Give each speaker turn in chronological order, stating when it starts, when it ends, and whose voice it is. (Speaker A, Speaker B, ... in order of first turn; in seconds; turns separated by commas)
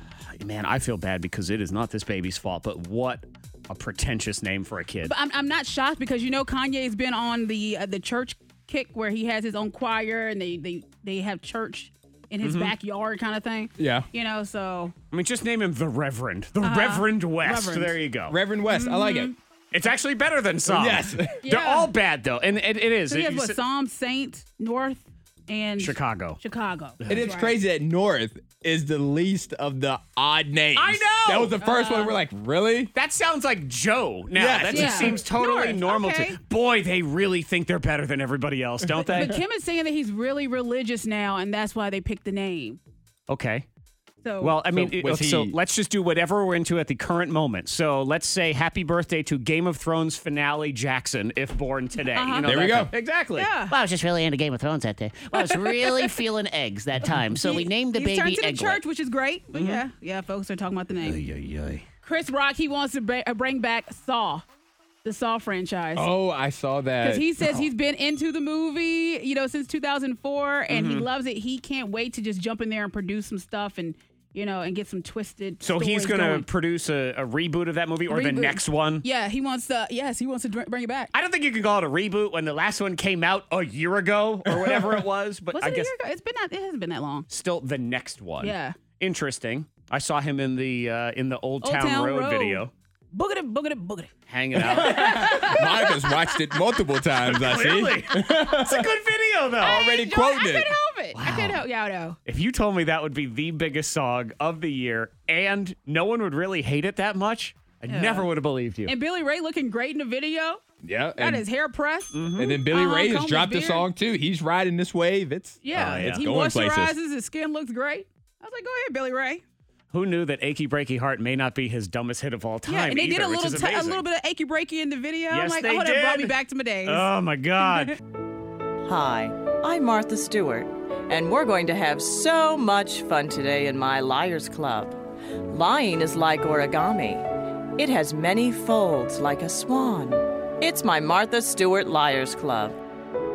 Speaker A: 0.3-5.1, Speaker B: 5.1-14.9, Speaker A: 12.4-12.7, Speaker C: 13.8-14.1, Speaker A: 15.1-18.4, Speaker B: 16.6-18.0, Speaker C: 18.3-19.3, Speaker B: 18.7-19.4, Speaker A: 19.7-23.6, Speaker C: 20.7-21.4, Speaker B: 21.4-21.9, Speaker B: 23.1-27.6, Speaker A: 25.8-26.4, Speaker A: 27.0-27.2, Speaker C: 27.1-32.9, Speaker A: 30.8-31.6, Speaker B: 31.6-32.1, Speaker A: 32.9-39.4, Speaker C: 34.3-35.2, Speaker B: 34.7-36.4, Speaker B: 39.0-42.8, Speaker A: 43.3-43.7, Speaker B: 44.2-44.6, Speaker A: 44.4-58.8, Speaker C: 44.7-45.6, Speaker B: 52.1-52.5, Speaker C: 52.5-53.0, Speaker B: 53.4-53.8, Speaker B: 55.3-56.1, Speaker B: 57.1-61.2, Speaker A: 59.5-59.8, Speaker A: 61.0-61.9, Speaker B: 62.0-64.4, Speaker B: 65.0-66.1, Speaker C: 66.0-67.7, Speaker B: 67.0-76.5, Speaker A: 70.7-71.1, Speaker A: 75.6-79.0, Speaker B: 78.1-81.1, Speaker A: 81.1-85.9, Speaker C: 84.5-84.9, Speaker B: 85.5-87.3, Speaker A: 87.3-92.7, Speaker B: 88.4-88.8, Speaker B: 91.6-96.5, Speaker A: 94.3-95.5, Speaker C: 94.6-99.0, Speaker A: 97.2-99.8, Speaker C: 99.6-100.8, Speaker B: 99.6-102.2, Speaker A: 101.1-101.6, Speaker A: 102.2-108.9, Speaker B: 107.9-108.3, Speaker B: 108.9-110.6, Speaker C: 110.8-111.5, Speaker B: 111.2-113.9, Speaker A: 112.1-112.6, Speaker C: 112.4-117.0, Speaker B: 115.6-119.4, Speaker A: 115.7-116.3, Speaker A: 119.9-124.0, Speaker B: 122.7-127.1, Speaker A: 125.3-128.0, Speaker B: 127.6-127.9, Speaker D: 128.8-142.8